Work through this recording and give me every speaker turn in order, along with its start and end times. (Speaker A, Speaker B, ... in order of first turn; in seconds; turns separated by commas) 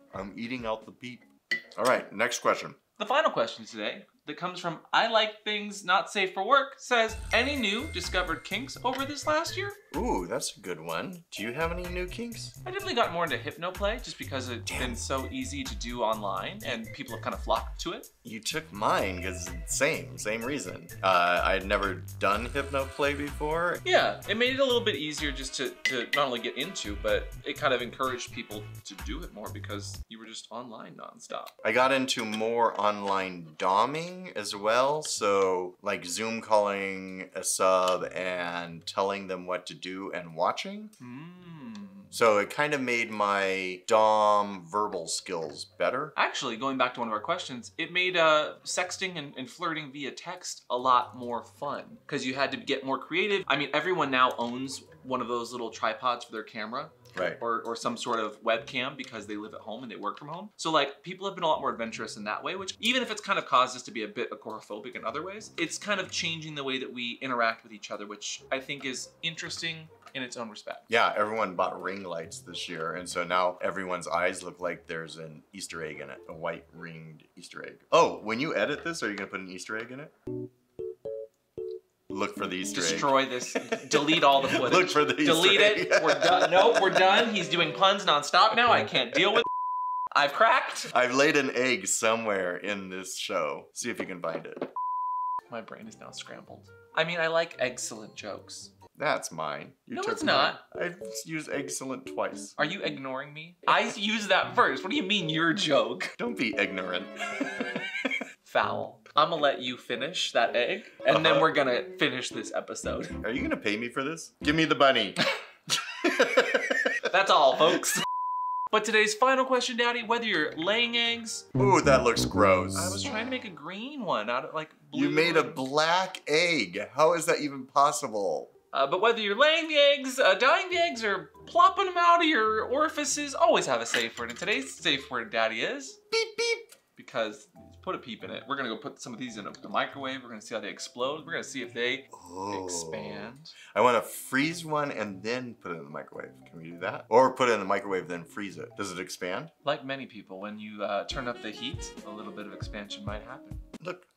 Speaker A: 0.1-2.8, Speaker B: 3.0-9.8, Speaker A: 9.9-12.6, Speaker B: 12.7-18.1, Speaker A: 14.7-15.0, Speaker A: 18.2-23.8, Speaker B: 23.8-31.5, Speaker A: 31.6-40.9, Speaker B: 41.0-42.1, Speaker A: 42.1-46.1, Speaker B: 46.1-70.8, Speaker A: 57.1-57.4, Speaker A: 70.9-80.1, Speaker A: 82.1-87.3, Speaker B: 82.7-89.5, Speaker B: 90.1-90.9, Speaker A: 90.9-94.7, Speaker B: 95.5-98.7, Speaker A: 99.0-102.5, Speaker B: 99.9-100.6, Speaker B: 102.6-106.2, Speaker A: 106.2-108.2, Speaker B: 108.5-113.2, Speaker A: 111.1-111.5, Speaker A: 113.2-115.2, Speaker A: 116.0-117.1, Speaker B: 117.1-118.0, Speaker B: 118.7-121.5, Speaker A: 121.5-123.0, Speaker B: 122.8-125.6, Speaker A: 124.9-128.5, Speaker B: 128.7-136.0, Speaker A: 136.1-136.7, Speaker B: 136.9-143.6, Speaker A: 142.1-149.5, Speaker B: 149.6-153.6, Speaker A: 153.8-154.1